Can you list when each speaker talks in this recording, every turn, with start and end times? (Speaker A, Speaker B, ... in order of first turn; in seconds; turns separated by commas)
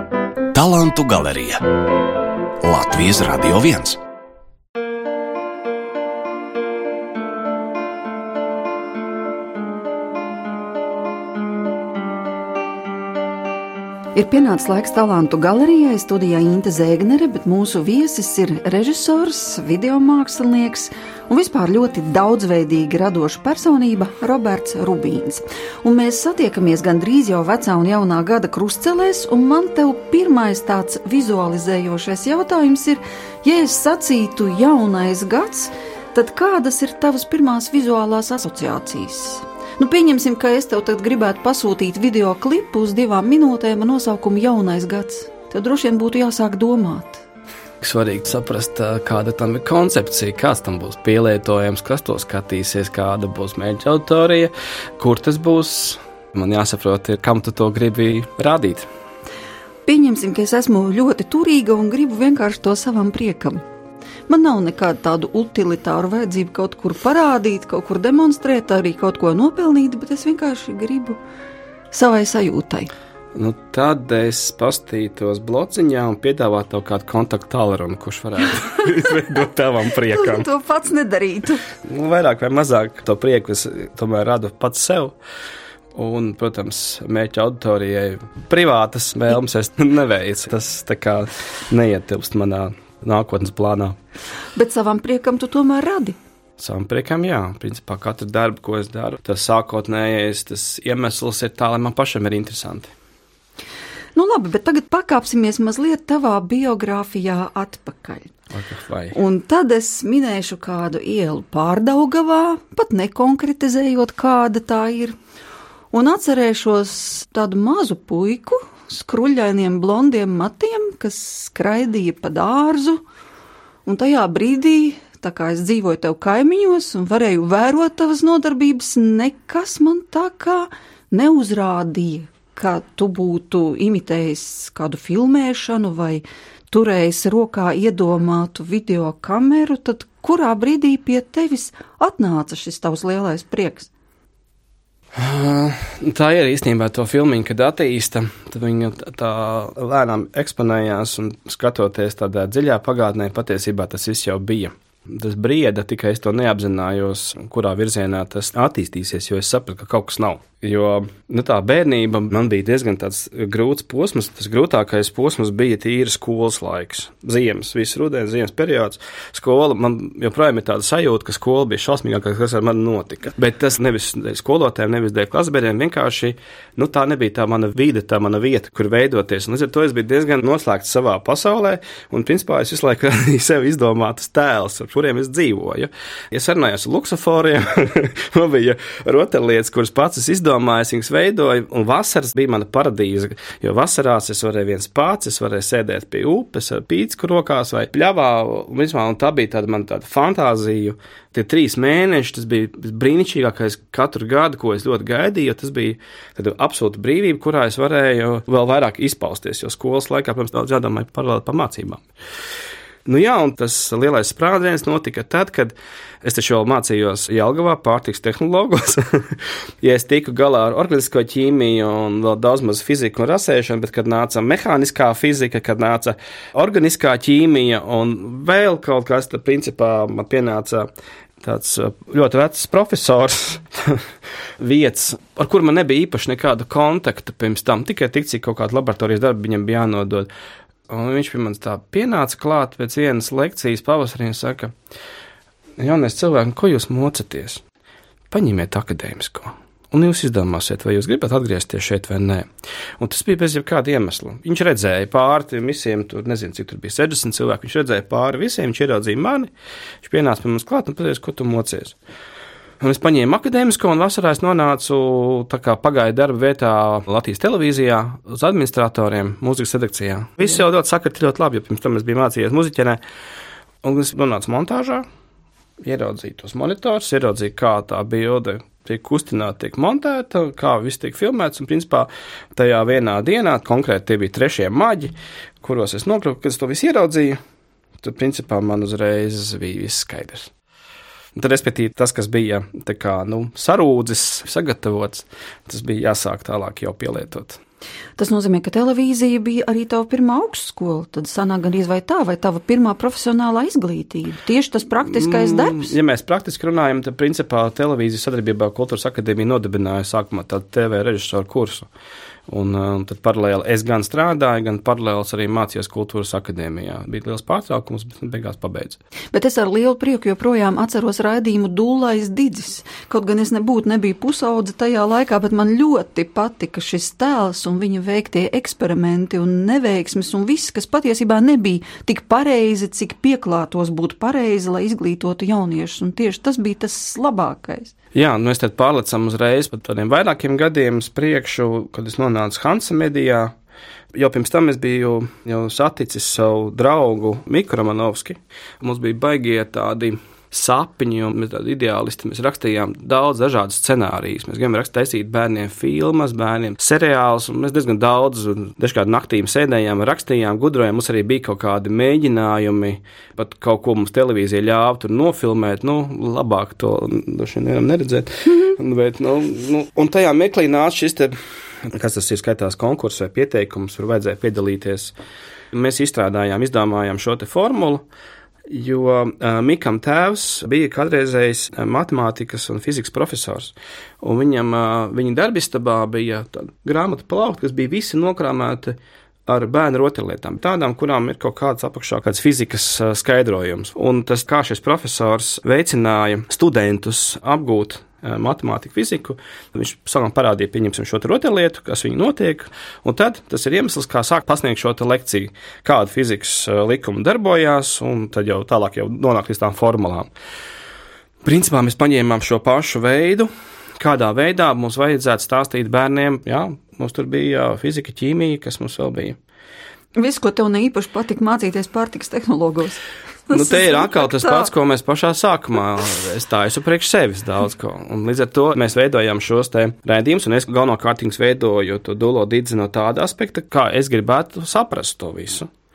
Speaker A: 0.5-1.6, Speaker A: 2.6-4.0, Speaker B: 14.2-47.2, Speaker C: 47.8-58.9, Speaker B: 59.9-63.6, Speaker B: 64.3-71.2, Speaker B: 71.9-72.9, Speaker C: 73.3-80.5, Speaker B: 80.1-81.6, Speaker C: 81.9-85.2, Speaker C: 86.0-94.0, Speaker B: 94.6-96.2, Speaker C: 96.6-102.9, Speaker B: 104.2-108.3, Speaker C: 108.5-109.2, Speaker B: 109.1-115.2, Speaker B: 115.9-123.0, Speaker B: 123.9-143.9, Speaker C: 145.2-212.0, Speaker C: 213.1-230.9, Speaker C: 231.4-234.0, Speaker C: 234.6-240.3, Speaker C: 240.9-244.7, Speaker C: 245.8-247.6, Speaker C: 248.3-252.5, Speaker C: 253.0-259.5, Speaker C: 260.0-261.9, Speaker C: 262.8-273.0, Speaker C: 273.8-275.1, Speaker C: 275.8-287.4, Speaker C: 288.0-290.5, Speaker C: 291.4-297.6, Speaker B: 298.2-305.9, Speaker C: 305.1-311.9, Speaker C: 312.5-319.0, Speaker B: 319.3-337.9, Speaker C: 338.1-343.5, Speaker C: 344.1-375.1, Speaker C: 375.7-378.0, Speaker C: 378.7-410.3, Speaker C: 411.4-413.5, Speaker C: 414.0-419.4, Speaker B: 420.2-424.7, Speaker C: 423.5-435.7